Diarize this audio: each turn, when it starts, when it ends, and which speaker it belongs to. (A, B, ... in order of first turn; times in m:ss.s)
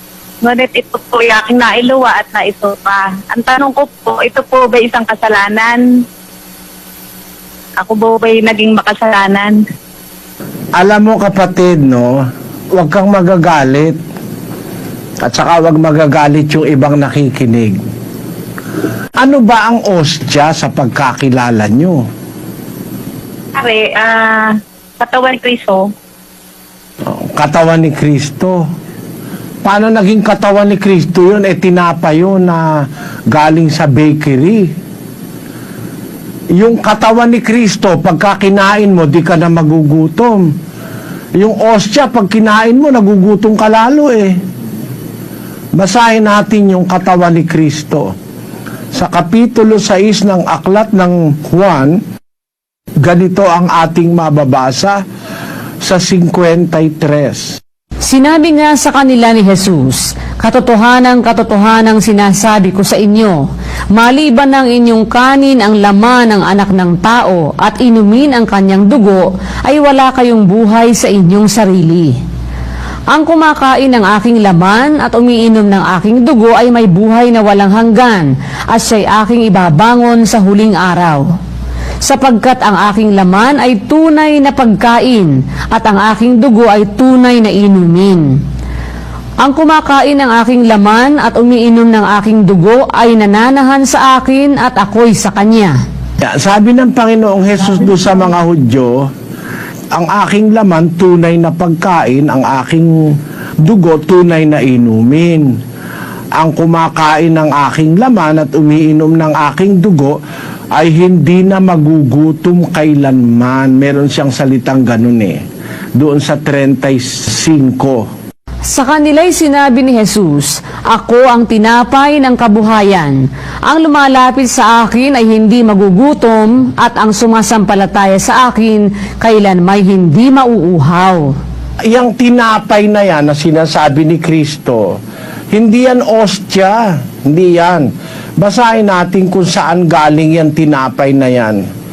0:00.4-0:05.8 A
0:07.8-0:09.6 A
0:10.8-0:12.2 B
0:12.7-0:14.0 B
0:15.2-0:17.8 B
0:19.2-0:22.0 B
0:23.6-0:25.8 A
0:27.1-0:28.6 B
0:29.6-0:34.7 B
0:36.6-0:40.5 B
0:41.4-0:44.4 B
0:45.7-0:48.1 B
0:48.9-0:52.0 B
0:53.0-0:55.0 B
0:55.8-0:57.6 B
0:58.0-1:12.2 C
1:13.1-1:21.2 C
1:22.0-1:28.3 C
1:29.4-1:35.8 C
1:36.2-1:39.1 B
1:39.9-1:45.5 B
1:46.3-1:50.2 B
1:50.7-1:55.4 B
1:56.0-1:58.1 B
1:58.6-2:11.3 C
2:11.9-2:15.0 B
2:15.5-2:21.6 B